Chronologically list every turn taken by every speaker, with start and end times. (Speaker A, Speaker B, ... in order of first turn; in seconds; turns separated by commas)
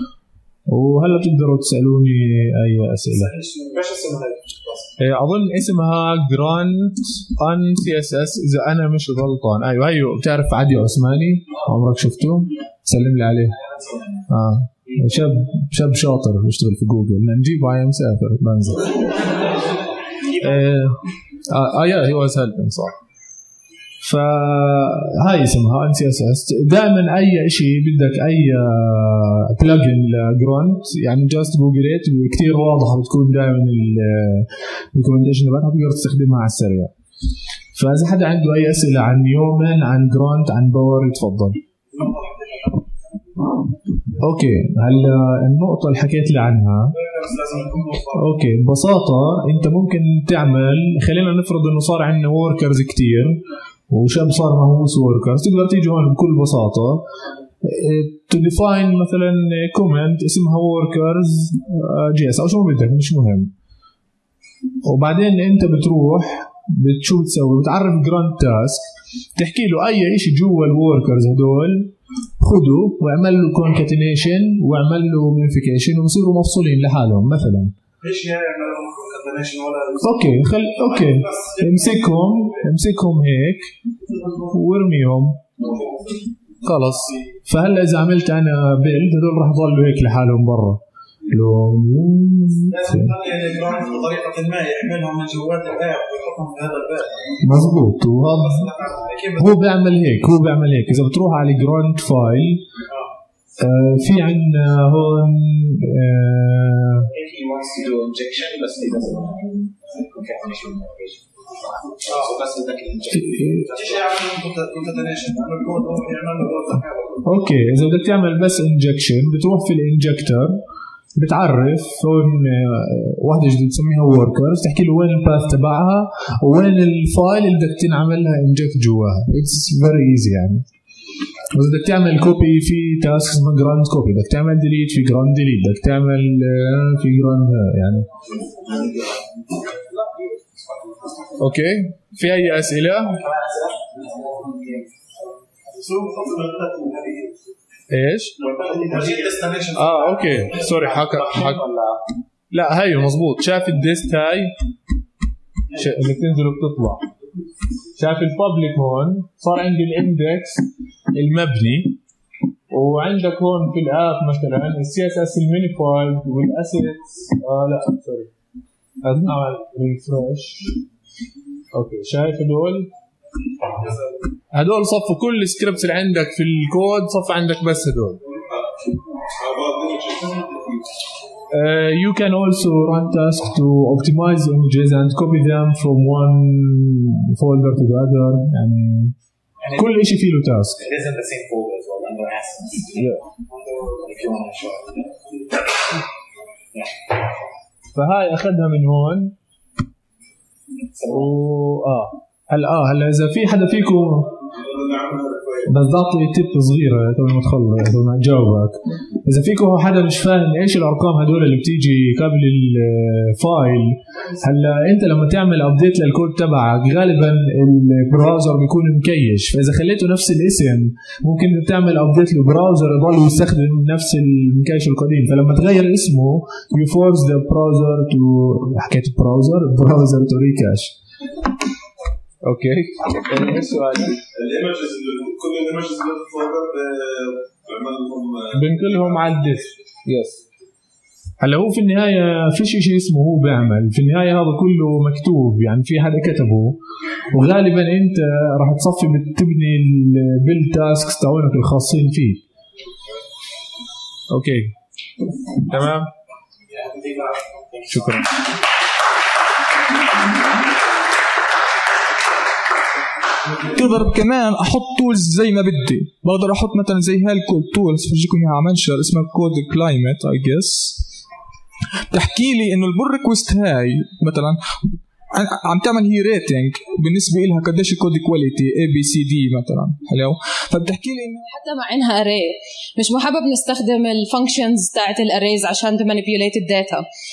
Speaker A: 0.7-3.3, Speaker B: 3.2-4.8, Speaker A: 5.0-13.6, Speaker A: 14.3-19.0, Speaker A: 20.4-23.0, Speaker A: 24.0-36.9, Speaker A: 37.8-41.6, Speaker B: 41.9-42.9, Speaker A: 44.2-46.9, Speaker B: 46.9-48.2, Speaker A: 48.1-57.0, Speaker A: 57.6-63.5, Speaker A: 64.8-77.7, Speaker B: 78.0-80.3, Speaker A: 80.0-83.7, Speaker B: 81.2-81.7, Speaker A: 84.5-85.4, Speaker A: 86.6-93.1, Speaker B: 92.7-97.3, Speaker A: 97.4-98.7, Speaker B: 98.7-99.4, Speaker A: 99.4-102.6, Speaker A: 103.6-107.1, Speaker C: 107.1-111.3, Speaker C: 112.0-114.0, Speaker A: 113.2-113.7, Speaker B: 113.7-117.2, Speaker A: 117.2-120.6, Speaker A: 121.2-130.7, Speaker A: 131.5-138.1, Speaker C: 138.7-139.0, Speaker A: 141.4-143.2, Speaker C: 143.2-144.7, Speaker B: 145.7-147.4, Speaker A: 147.9-148.4, Speaker B: 148.4-150.8, Speaker C: 148.4-149.3, Speaker A: 149.7-151.7, Speaker A: 152.5-154.5, Speaker A: 155.8-157.1, Speaker A: 158.0-162.0, Speaker A: 162.7-168.3, Speaker A: 169.0-170.7, Speaker A: 171.7-172.9, Speaker A: 174.5-178.2, Speaker D: 179.4-180.8, Speaker A: 181.5-189.2, Speaker A: 189.7-190.8, Speaker C: 190.8-193.0, Speaker A: 192.9-193.2, Speaker C: 194.0-195.1, Speaker A: 197.9-199.3, Speaker C: 201.0-201.2, Speaker A: 201.1-204.4, Speaker D: 204.5-205.7, Speaker A: 205.7-231.0, Speaker A: 232.4-234.2, Speaker D: 234.3-239.4, Speaker A: 238.5-240.4, Speaker A: 241.4-246.8, Speaker A: 247.3-252.4, Speaker A: 254.3-254.7, Speaker A: 255.7-256.1, Speaker A: 257.9-258.3, Speaker E: 263.6-271.1, Speaker E: 272.1-274.6, Speaker E: 275.3-281.5, Speaker F: 281.5-287.0